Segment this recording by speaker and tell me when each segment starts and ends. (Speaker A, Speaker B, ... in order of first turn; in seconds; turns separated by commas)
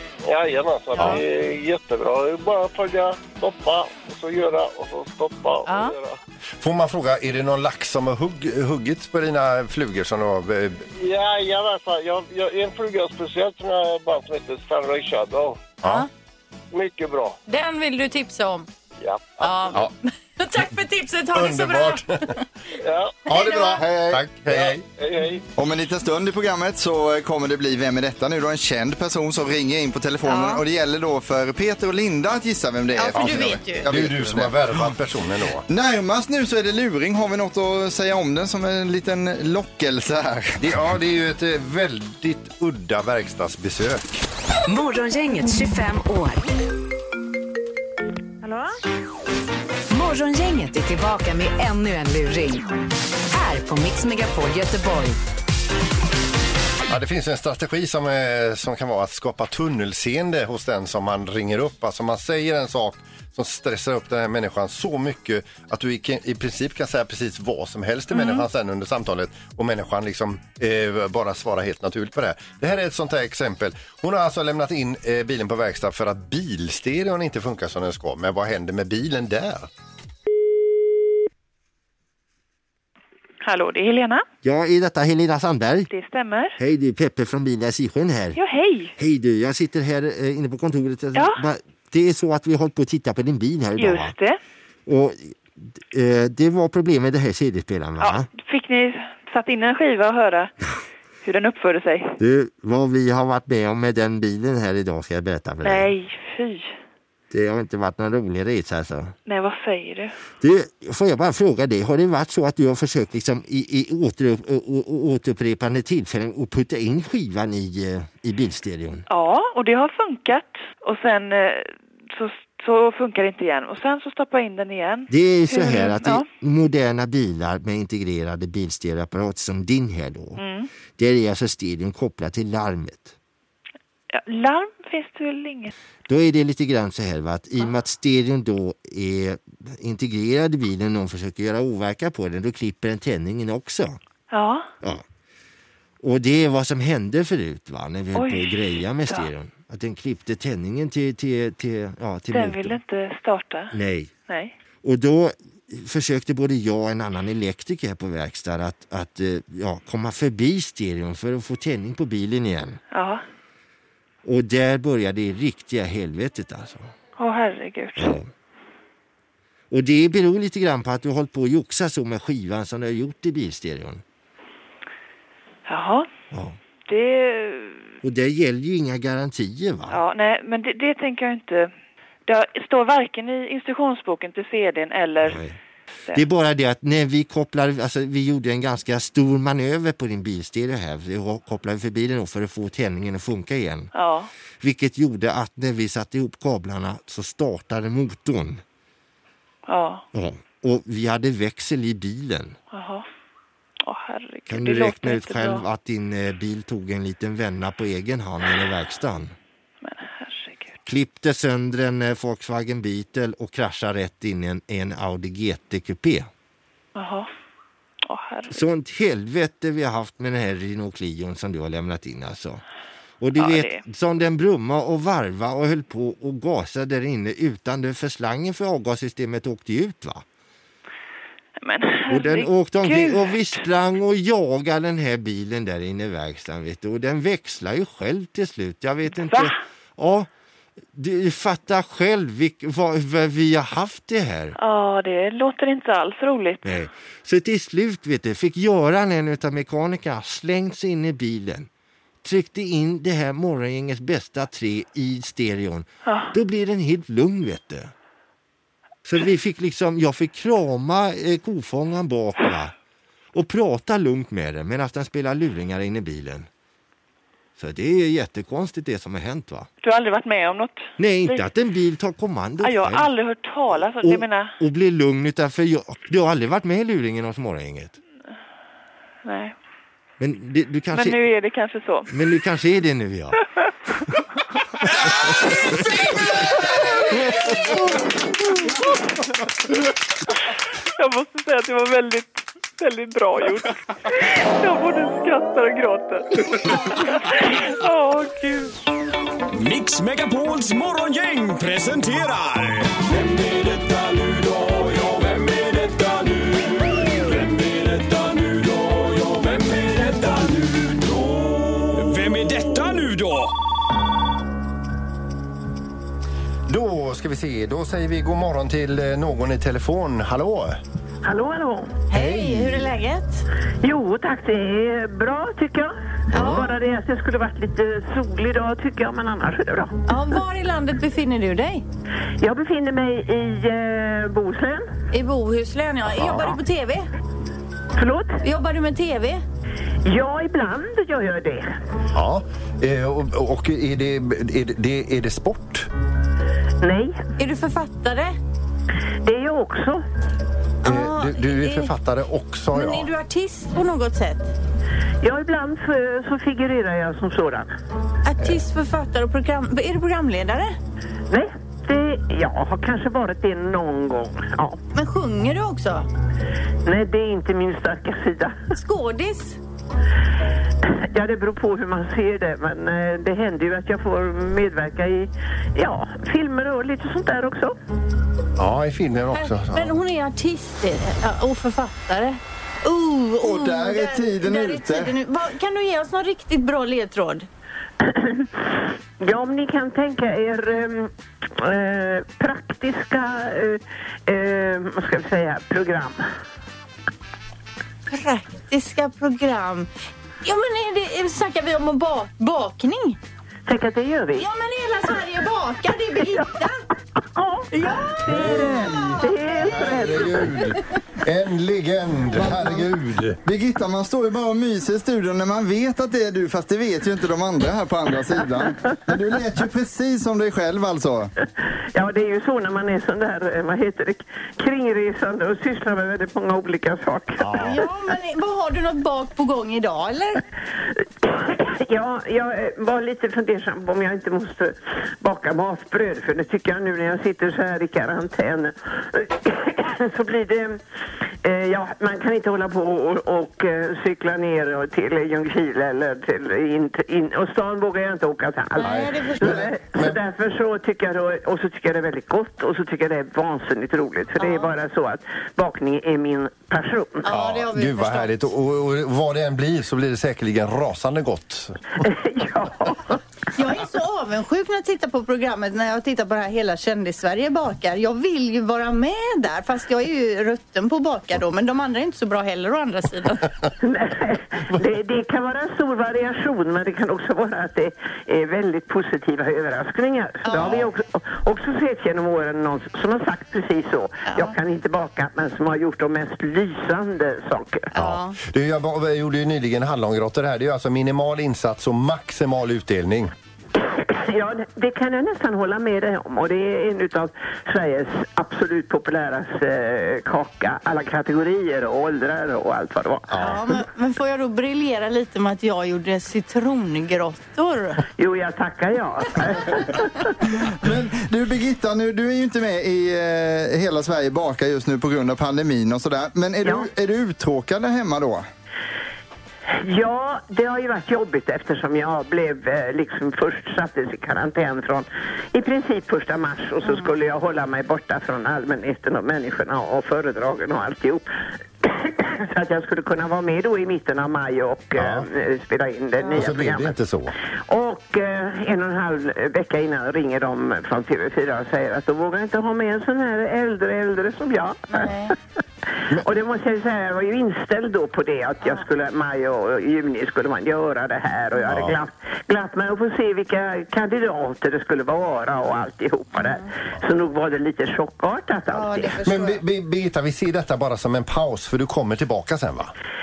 Speaker A: 0.3-6.2, Speaker B: 0.9-1.2, Speaker B: 5.7-5.9, Speaker C: 6.6-10.8, Speaker A: 10.9-15.8, Speaker C: 15.8-16.1, Speaker A: 16.7-17.4, Speaker B: 17.5-18.7, Speaker A: 19.0-19.8, Speaker B: 19.4-22.4, Speaker C: 21.3-22.3, Speaker A: 22.8-23.3, Speaker B: 23.2-23.8, Speaker C: 23.3-24.8, Speaker D: 23.8-24.3, Speaker A: 24.5-25.4, Speaker D: 25.6-34.9, Speaker B: 30.2-30.6, Speaker B: 32.9-33.9, Speaker C: 33.1-35.6, Speaker D: 35.7-40.6, Speaker C: 40.6-44.2, Speaker E: 44.7-46.4, Speaker E: 49.9-52.7, Speaker E: 53.3-55.2, Speaker C: 56.9-79.7, Speaker B: 68.2-68.4, Speaker F: 83.4-84.2, Speaker G: 84.4-85.9, Speaker F: 85.9-86.6, Speaker G: 86.6-88.4, Speaker F: 88.3-88.9, Speaker G: 89.0-94.1, Speaker F: 91.1-91.4, Speaker F: 93.8-94.4, Speaker G: 94.9-98.3, Speaker F: 98.0-100.5, Speaker F: 101.2-102.2, Speaker G: 102.2-105.9, Speaker F: 105.6-106.8, Speaker G: 107.3-109.1, Speaker F: 109.2-110.2, Speaker G: 110.4-119.0, Speaker F: 119.1-126.3, Speaker G: 125.1-130.4, Speaker F: 130.4-130.7, Speaker G: 130.9-133.1, Speaker F: 134.1-135.7, Speaker G: 136.1-144.0, Speaker F: 144.3-144.7, Speaker G: 146.0-152.8, Speaker F: 148.1-149.3, Speaker F: 152.3-154.5, Speaker G: 153.7-154.1, Speaker G: 154.8-162.8, Speaker F: 162.9-163.2, Speaker G: 164.2-166.9, Speaker F: 167.2-168.2, Speaker G: 168.0-168.3, Speaker G: 169.7-174.0, Speaker F: 175.7-176.1, Speaker F: 176.9-177.9, Speaker G: 178.0-180.0, Speaker F: 179.9-181.7, Speaker F: 182.3-185.4, Speaker G: 185.2-185.5, Speaker G: 186.1-193.9, Speaker F: 193.9-194.3, Speaker G: 194.6-198.6, Speaker F: 199.7-200.0, Speaker G: 200.1-202.6, Speaker F: 202.7-203.1, Speaker F: 203.8-205.7, Speaker G: 204.5-209.3, Speaker F: 209.8-210.8, Speaker G: 210.8-216.3, Speaker F: 216.9-217.3, Speaker F: 218.1-218.6, Speaker G: 218.5-222.6, Speaker G: 223.2-230.2, Speaker F: 223.3-223.8, Speaker F: 231.6-233.6, Speaker G: 232.1-240.3, Speaker F: 239.1-239.5, Speaker G: 240.9-244.6, Speaker F: 244.6-246.7, Speaker G: 246.6-251.7, Speaker G: 252.2-257.9, Speaker F: 256.0-256.3, Speaker G: 259.0-262.7, Speaker G: 263.3-266.5, Speaker G: 267.6-269.7, Speaker F: 269.8-271.5, Speaker G: 271.0-273.1, Speaker F: 272.6-274.6, Speaker G: 274.0-278.0, Speaker F: 279.2-279.5, Speaker G: 280.2-281.2, Speaker F: 280.9-282.4, Speaker G: 282.1-283.4, Speaker G: 285.3-285.9, Speaker F: 286.8-288.0, Speaker F: 291.0-298.7, Speaker H: 299.5-306.5, Speaker H: 307.4-311.0, Speaker H: 311.9-313.5, Speaker C: 316.7-320.8, Speaker I: 321.2-322.0, Speaker B: 322.1-323.4, Speaker C: 322.1-322.9, Speaker I: 323.8-329.9, Speaker C: 326.3-326.6, Speaker B: 326.3-326.8, Speaker B: 330.1-331.8, Speaker I: 332.4-334.9, Speaker B: 335.1-337.1, Speaker I: 338.0-338.4, Speaker B: 338.4-339.4, Speaker I: 340.0-341.7, Speaker C: 342.1-345.9, Speaker I: 346.8-347.2, Speaker B: 347.4-348.4, Speaker I: 349.2-350.0, Speaker B: 350.8-351.9, Speaker C: 350.8-353.1, Speaker B: 352.7-354.5, Speaker I: 355.2-357.7, Speaker B: 358.2-360.8, Speaker I: 361.3-364.8, Speaker B: 364.9-366.1, Speaker I: 366.9-368.6, Speaker B: 368.7-369.6, Speaker I: 370.8-377.7, Speaker C: 378.6-380.0, Speaker B: 379.3-387.5, Speaker D: 383.4-385.1, Speaker I: 388.0-396.2, Speaker B: 398.1-399.9, Speaker B: 400.4-403.2, Speaker I: 403.7-404.5, Speaker B: 404.4-406.8, Speaker I: 407.4-407.6, Speaker B: 407.7-410.8, Speaker I: 408.2-410.7, Speaker C: 408.2-413.4, Speaker D: 412.4-412.9, Speaker D: 413.4-421.3, Speaker I: 421.9-427.6, Speaker C: 427.4-427.8, Speaker B: 427.6-430.4, Speaker I: 431.2-440.8, Speaker I: 441.4-457.3, Speaker B: 448.8-449.7, Speaker C: 448.8-450.1, Speaker B: 454.4-454.7, Speaker B: 457.2-458.4, Speaker C: 457.3-461.8, Speaker I: 462.0-463.2, Speaker B: 463.5-473.5, Speaker I: 473.8-487.9, Speaker B: 480.4-480.9, Speaker B: 484.2-484.5, Speaker B: 487.9-488.4, Speaker C: 488.0-493.3, Speaker I: 493.8-503.4, Speaker C: 503.3-503.6, Speaker B: 503.4-508.0, Speaker I: 508.2-510.3, Speaker D: 510.6-518.5, Speaker I: 519.7-531.2, Speaker B: 526.8-527.1, Speaker I: 531.8-536.9, Speaker C: 535.0-535.3, Speaker B: 536.2-536.5, Speaker C: 536.3-537.3, Speaker I: 537.7-545.1, Speaker B: 544.9-545.3, Speaker I: 546.1-559.2, Speaker C: 551.7-551.9, Speaker B: 556.4-556.6, Speaker B: 558.7-559.6, Speaker C: 559.2-562.9